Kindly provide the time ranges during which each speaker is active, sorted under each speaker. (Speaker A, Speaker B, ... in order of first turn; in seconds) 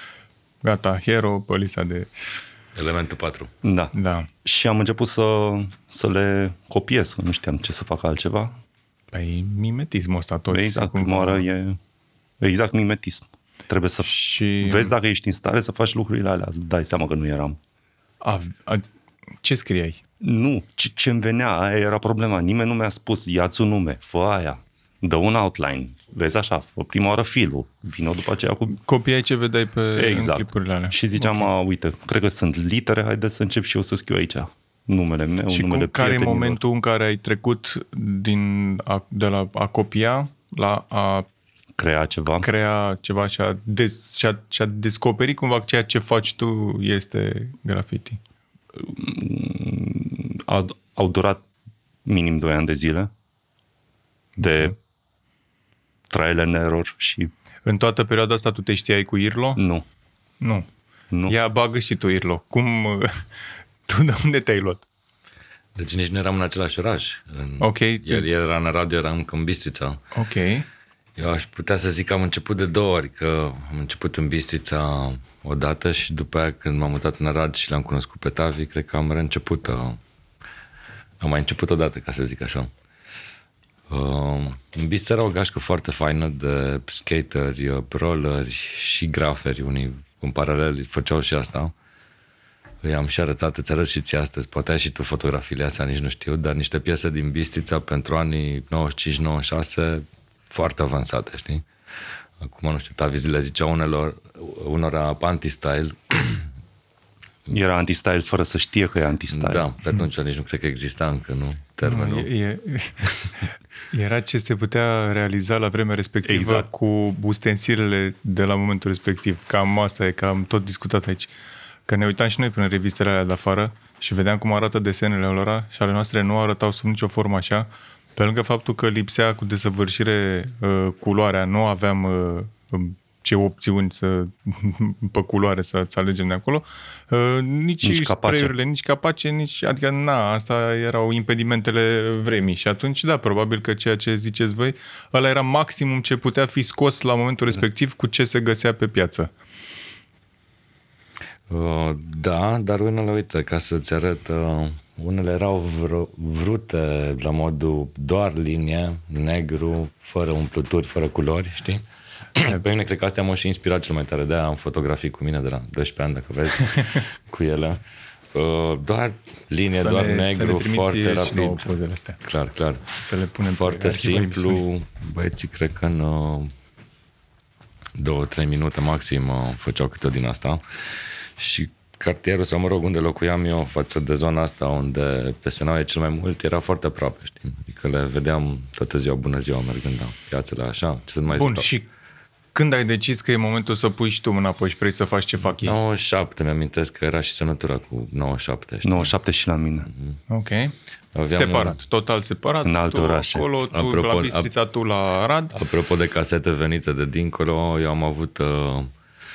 Speaker A: 0.6-2.1, 3.9-4.3, 9.1-11.4, 14.0-14.9, 18.2-18.8, 19.4-20.0, 28.7-31.5, 35.5-41.3, 42.4-48.2, 57.6-59.6, 60.4-60.7, 61.3-63.3, 63.9-64.8, 67.6-68.3, 70.1-70.7, 111.8-113.3, 113.9-121.3, 121.9-149.3, 169.7-172.2, 173.0-174.6, 191.3-191.9, 192.5-195.8, 200.3-200.8, 201.3-205.5
Speaker B: 2.8-3.5, 65.8-70.0, 71.2-80.0, 81.2-82.7, 83.9-91.7, 92.8-101.7, 102.4-106.5, 109.3-112.3, 151.5-161.8, 162.4-167.8, 168.3-171.7, 172.2-172.8, 173.5-176.5, 178.0-180.6, 181.4-191.7, 195.6-199.1, 199.9-200.2, 201.2-201.8, 203.7-204.5, 205.5-208.9
Speaker C: 3.6-8.6, 10.5-11.8, 12.4-17.6, 20.2-28.8, 29.9-36.6, 41.8-42.5, 48.8-51.5, 52.0-53.1, 54.4-54.8, 56.1-57.3, 59.6-59.9, 61.1-61.4, 107.5-109.7, 116.2-116.7, 137.8-138.5, 198.8-199.9, 202.6-203.5